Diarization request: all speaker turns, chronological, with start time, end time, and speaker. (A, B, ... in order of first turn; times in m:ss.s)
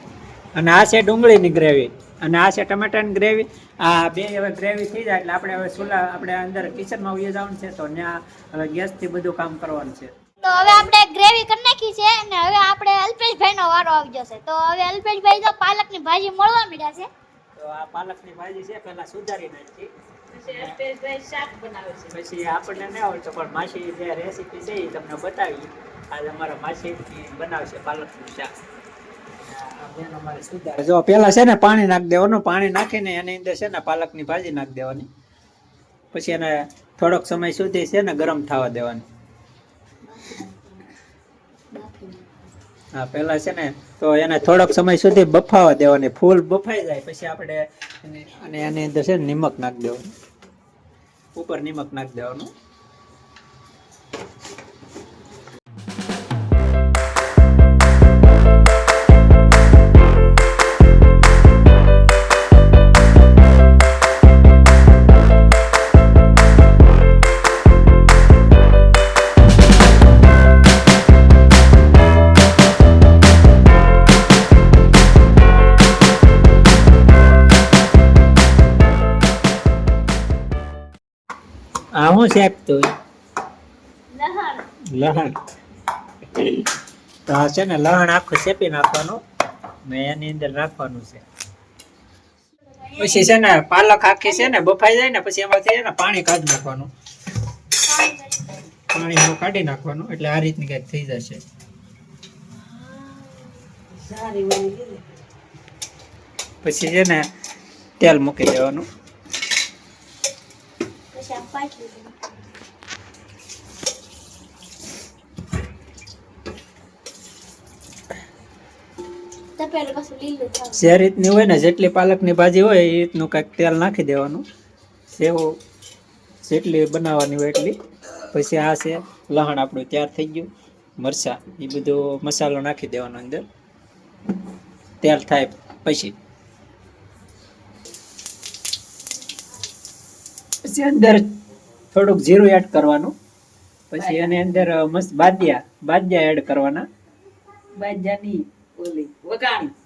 0:00.6-0:10.1 A
0:10.4-0:17.1 B
0:17.6-0:19.9 A
0:20.3-0:22.1 C
0:22.1-0:28.5 A
0:29.4-0:35.1 A
0:36.1-0:39.0 A
0:41.7-0:42.2 B
0:42.9-0:50.1 A
0:51.3-0:52.5 A
1:22.0-1:22.8 A
1:24.1-1:24.6 B
1:24.9-1:25.4 A
1:26.3-1:26.7 A
1:27.3-1:29.2 A
1:29.8-1:31.2 A
1:32.9-1:33.3 B
1:33.0-1:36.9 A
1:37.8-1:38.7 B
1:38.9-1:41.4 A
1:42.9-1:43.5 B
1:43.9-1:45.0 C
1:46.6-1:47.2 A
1:48.0-1:48.8 A
1:51.1-1:52.2 B
1:59.6-2:00.9 B
2:00.8-2:04.4 A
2:05.1-2:05.5 A
2:06.4-2:07.7 A
2:08.3-2:10.5 A
2:11.0-2:13.4 A
2:15.0-2:16.1 A
2:20.6-2:21.3 A
2:21.9-2:23.1 A
2:23.9-2:26.8 A
2:24.0-2:24.7 C
2:27.8-2:29.7 C